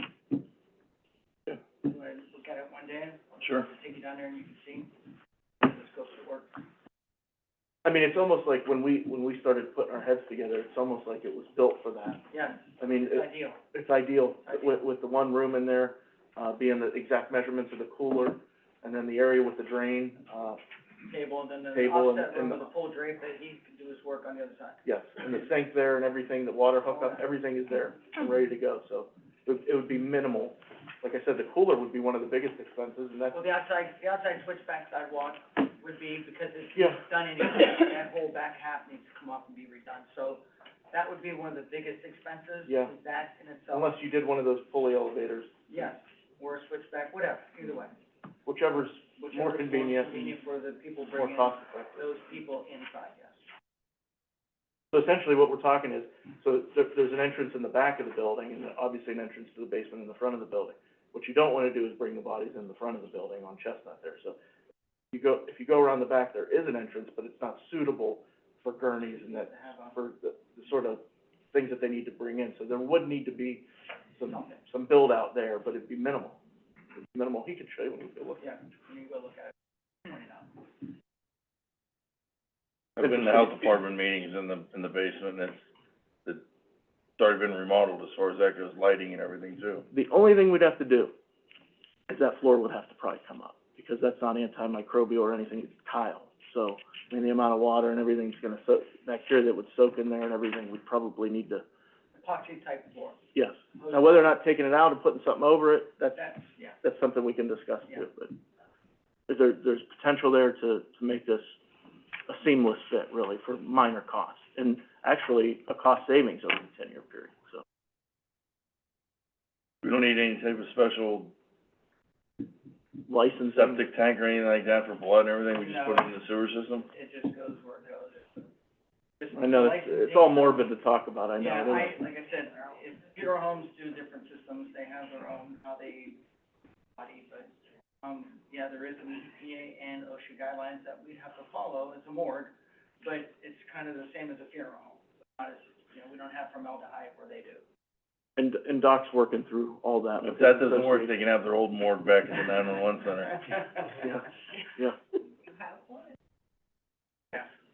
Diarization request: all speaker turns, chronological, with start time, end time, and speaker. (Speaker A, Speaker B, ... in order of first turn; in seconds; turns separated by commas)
Speaker A: 1.8-4.9, Speaker B: 3.4-3.7, Speaker A: 5.6-6.6, Speaker C: 7.8-12.2, Speaker A: 12.3-13.6, Speaker C: 12.8-20.6, Speaker A: 14.5-14.8, Speaker A: 21.1-24.8, Speaker C: 21.7-22.7, Speaker C: 24.9-33.4, Speaker A: 26.9-27.2, Speaker A: 33.3-43.9, Speaker C: 36.8-37.0, Speaker C: 42.7-42.9, Speaker C: 43.7-45.5, Speaker A: 45.7-48.0, Speaker C: 48.5-50.4, Speaker A: 49.2-53.4, Speaker C: 51.1-52.1, Speaker C: 54.9-64.4, Speaker C: 65.1-71.0, Speaker A: 69.1-70.0, Speaker C: 71.5-76.4, Speaker C: 77.0-78.4, Speaker A: 78.4-80.6, Speaker B: 83.0-85.6, Speaker C: 83.0-83.7, Speaker B: 87.2-89.9, Speaker C: 89.9-91.1, Speaker C: 92.1-101.6, Speaker A: 102.2-103.2, Speaker C: 103.3-106.2, Speaker A: 103.8-104.3, Speaker A: 106.2-106.8, Speaker C: 106.8-108.4, Speaker C: 109.3-111.5, Speaker C: 112.3-117.6, Speaker B: 119.8-121.3, Speaker C: 123.1-123.8, Speaker B: 123.5-126.9, Speaker A: 125.5-126.2, Speaker A: 126.9-128.4, Speaker A: 129.2-130.7, Speaker C: 129.3-131.9, Speaker A: 131.4-136.2, Speaker A: 137.0-137.5, Speaker A: 138.0-147.6, Speaker C: 148.4-151.2, Speaker B: 150.2-153.4, Speaker C: 153.9-154.2